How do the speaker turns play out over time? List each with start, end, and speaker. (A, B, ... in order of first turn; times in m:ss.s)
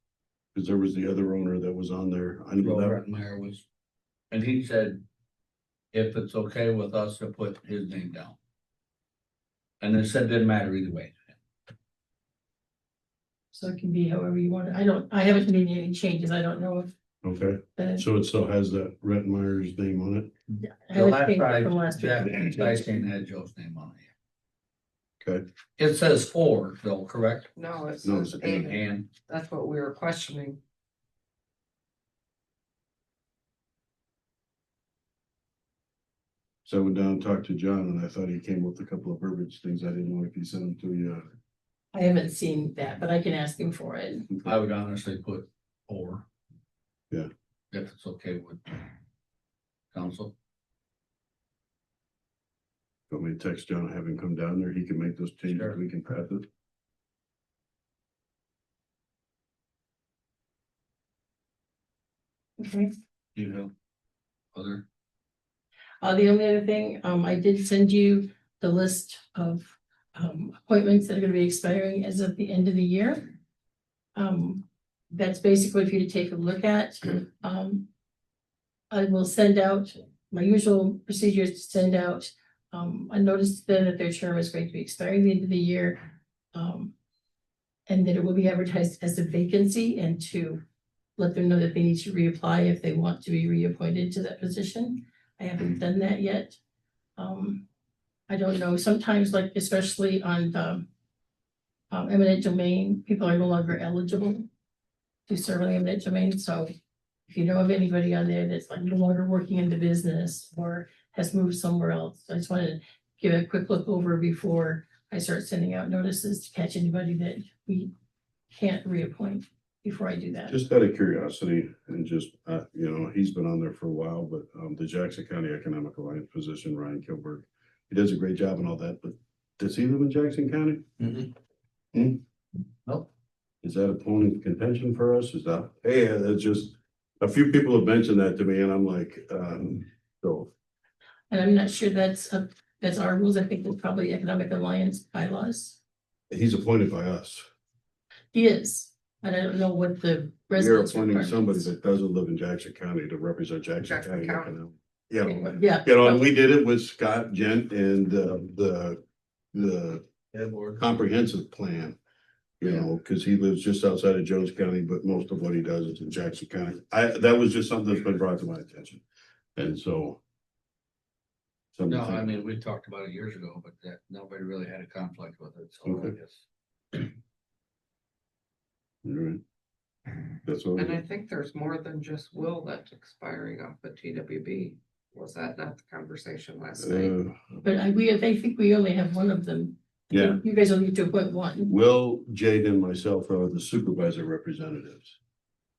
0:00.5-0:03.0 A
0:02.6-0:03.6 B
0:04.3-0:05.0 B
0:05.9-0:08.4 B
0:09.8-0:11.4 B
0:13.5-0:16.9 C
0:17.2-0:20.3 A
0:17.8-0:18.0 C
0:20.6-0:22.7 C
0:20.9-0:24.1 B
0:25.8-0:27.5 B
0:27.6-0:30.6 D
0:28.0-0:28.7 A
0:28.6-0:29.1 B
0:36.6-0:41.2 A
0:41.9-0:44.4 C
0:44.4-0:46.2 B
0:47.7-0:48.8 B
0:49.9-0:50.3 B
0:53.1-0:56.4 A
0:55.5-0:55.8 B
1:02.6-1:02.9 C
1:03.3-1:03.7 B
1:04.5-1:04.8 B
1:06.0-1:13.2 C
1:14.2-1:17.9 C
1:18.9-1:26.0 C
1:26.5-1:26.9 C
1:27.9-1:30.6 C
1:31.2-1:36.6 C
1:37.2-1:37.6 C
1:38.3-1:40.8 C
1:41.9-1:44.5 C
1:45.3-1:46.7 C
1:47.3-1:57.9 C
1:58.5-2:00.6 C
2:00.5-2:10.9 A
2:11.0-2:11.3 B
2:11.9-2:12.2 A
2:13.6-2:20.5 A
2:21.3-2:25.8 C
2:26.3-2:27.4 A
2:28.3-2:31.7 C
2:30.5-2:39.0 A
2:33.8-2:34.6 D
2:35.2-2:36.2 C
2:35.3-2:35.5 D
2:39.5-2:40.0 A
2:40.3-2:40.8 B
2:40.7-2:42.0 A
2:42.6-2:49.0 A
2:49.6-2:50.2 A
2:51.7-2:52.3 A
2:51.9-2:57.0 B
2:55.8-2:56.1 A
2:59.0-2:59.4 A
3:00.4-3:01.0 A
3:00.7-3:07.1 D
3:06.8-3:07.6 A
3:07.6-3:11.7 C
3:10.1-3:10.4 A
3:11.6-3:15.2 A